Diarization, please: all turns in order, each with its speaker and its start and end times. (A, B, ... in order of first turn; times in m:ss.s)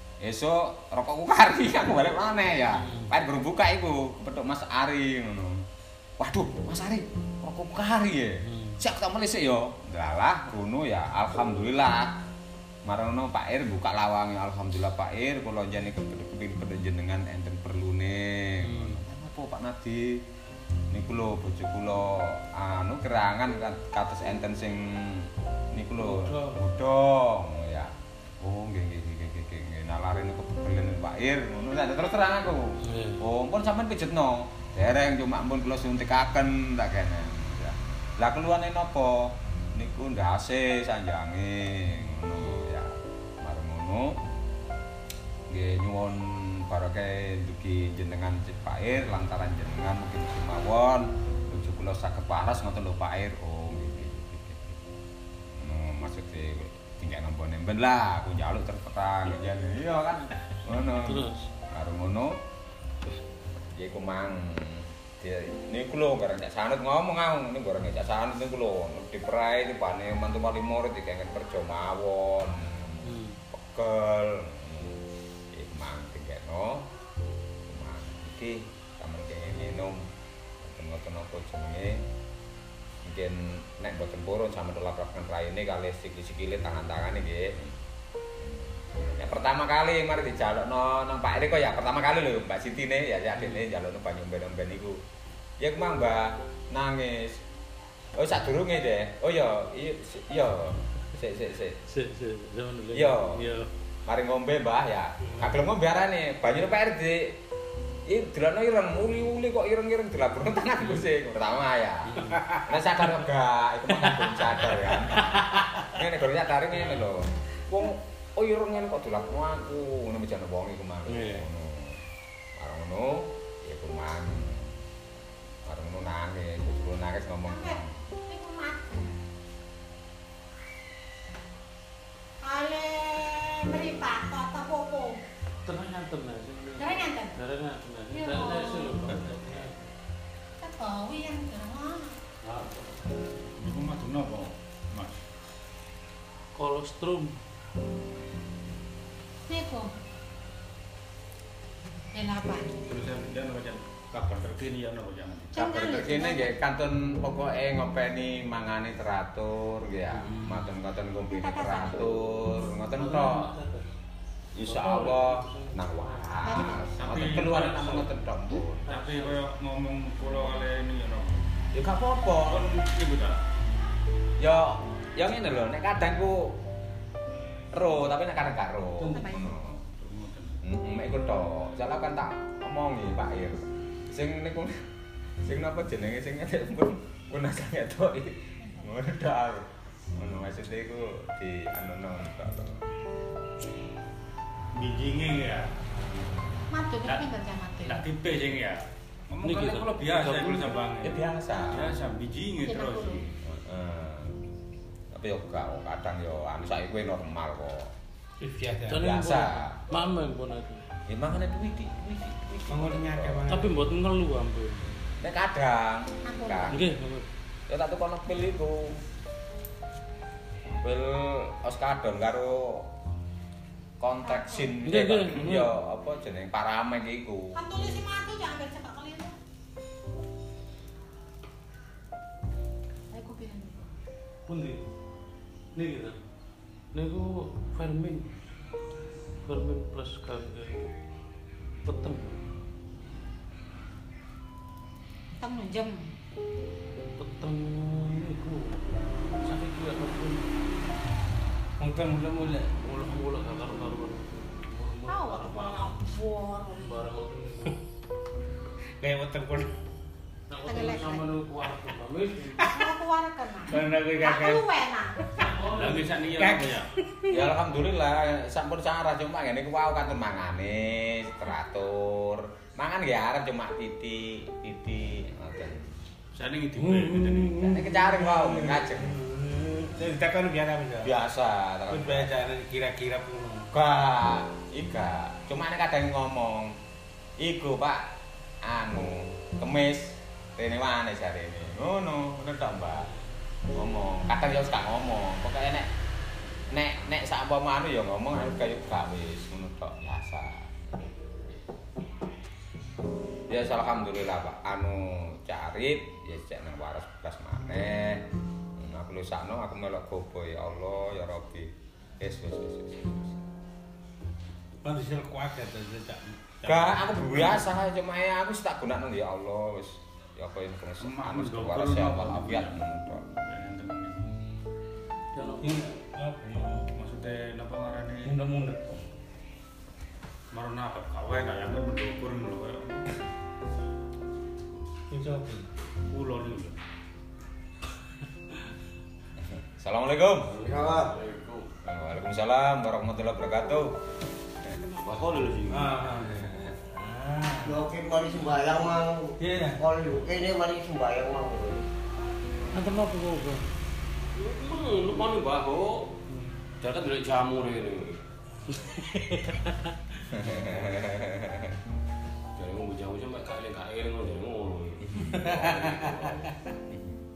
0:00.2-0:05.6 A
0:02.7-0:03.1 B
0:06.2-0:12.1 A
0:08.4-0:08.8 B
0:12.8-0:20.2 A
0:18.6-0:19.0 B
0:20.9-0:42.9 A
0:26.0-0:26.6 B
0:32.8-0:33.2 B
0:43.4-0:44.1 A
0:45.5-0:54.8 A
0:55.5-1:02.4 A
1:01.0-1:01.5 B
1:03.7-1:16.9 A
1:13.0-1:13.4 B
1:17.7-1:20.0 A
1:20.6-1:22.0 A
1:23.0-1:27.7 A
1:28.4-1:35.0 A
1:33.4-1:33.6 B
1:35.6-1:37.4 A
1:38.2-1:41.8 A
1:41.9-1:43.7 B
1:42.9-1:43.4 A
1:44.1-1:47.4 A
1:48.1-2:02.0 A
1:52.1-1:52.4 B
2:01.1-2:01.4 B
2:02.6-2:04.7 A
2:05.7-2:07.9 A
2:07.4-2:09.1 C
2:12.4-2:15.2 C
2:15.6-2:19.8 B
2:16.8-2:17.4 C
2:18.1-2:19.0 C
2:20.6-2:22.1 C
2:22.4-2:22.8 B
2:23.6-2:25.2 D
2:26.5-2:27.4 B
2:29.5-2:29.9 C
2:32.1-2:32.8 C
2:32.9-2:35.6 D
2:35.5-2:36.6 C
2:35.5-2:43.5 A
2:41.3-2:42.2 C
2:43.0-2:43.8 B
2:44.5-2:48.9 A
2:44.6-2:45.8 B
2:46.4-2:46.9 C
2:46.9-2:48.1 D
2:48.9-2:51.4 D
2:51.7-2:52.7 A
2:52.4-2:53.4 D
2:54.4-2:56.6 A
2:57.7-2:59.8 A
2:59.1-2:59.6 C
2:59.9-3:00.6 D
3:00.6-3:04.7 A
3:05.4-3:12.8 A
3:14.7-3:15.7 D
3:16.2-3:16.6 A
3:16.7-3:18.0 C
3:17.0-3:17.3 D
3:17.8-3:23.3 D
3:19.4-3:20.7 B
3:21.0-3:21.9 A
3:22.6-3:23.2 C
3:23.4-3:24.4 A
3:25.1-3:27.9 A
3:28.4-3:29.1 E
3:28.9-3:30.8 B
3:29.0-3:29.7 A
3:31.1-3:33.4 A
3:32.7-3:33.8 E
3:33.5-3:34.9 B
3:35.2-3:36.8 A
3:36.2-3:36.8 C
3:36.7-3:37.3 B
3:37.7-3:38.9 A
3:40.8-3:42.9 A
3:44.0-3:47.6 A
3:44.2-3:44.7 C
3:44.8-3:45.7 B
3:47.5-3:49.3 C
3:53.1-3:53.9 C
3:54.5-3:54.8 B
3:55.7-3:56.2 B
3:56.9-3:58.3 B
3:59.4-4:00.9 B
4:01.8-4:02.4 B
4:05.4-4:06.1 C
4:07.2-4:08.8 B
4:09.3-4:10.4 B
4:11.8-4:12.7 E
4:12.7-4:16.0 B
4:15.1-4:17.0 C
4:16.8-4:17.8 B
4:19.0-4:19.7 E
4:20.5-4:22.7 B
4:20.6-4:21.2 C
4:22.6-4:23.0 E
4:22.6-4:25.2 C
4:23.6-4:24.8 E
4:25.4-4:26.1 B
4:25.7-4:26.9 D
4:26.3-4:27.3 E
4:27.3-4:35.8 A
4:36.3-4:37.6 D
4:36.8-4:41.1 E
4:37.6-4:39.2 A
4:41.0-4:42.3 A
4:41.9-4:43.7 E
4:43.7-4:46.7 A
4:47.4-4:48.0 A
4:48.6-4:53.1 A
4:53.7-4:55.9 A
4:56.7-5:00.6 A
5:03.5-5:08.2 A
5:08.8-5:11.7 A
5:12.2-5:13.4 A
5:14.8-5:17.6 E
5:16.6-5:23.2 A
5:21.0-5:22.8 D
5:23.4-5:24.3 D
5:25.3-5:25.9 B
5:25.6-5:26.8 E
5:26.9-5:28.3 D
5:28.4-5:28.8 E
5:30.5-5:33.1 D
5:35.1-5:35.7 E
5:36.1-5:36.7 D
5:39.6-5:40.5 A
5:40.5-5:41.7 F
5:40.6-5:41.1 G
5:41.8-5:43.9 A
5:44.8-5:46.6 F
5:45.7-5:47.7 E
5:47.6-5:51.8 G
5:49.4-5:49.8 E
5:52.7-5:53.6 B
5:54.4-5:56.1 F
5:56.8-5:58.2 F
6:00.3-6:01.7 A
6:02.6-6:06.5 F
6:06.9-6:07.2 A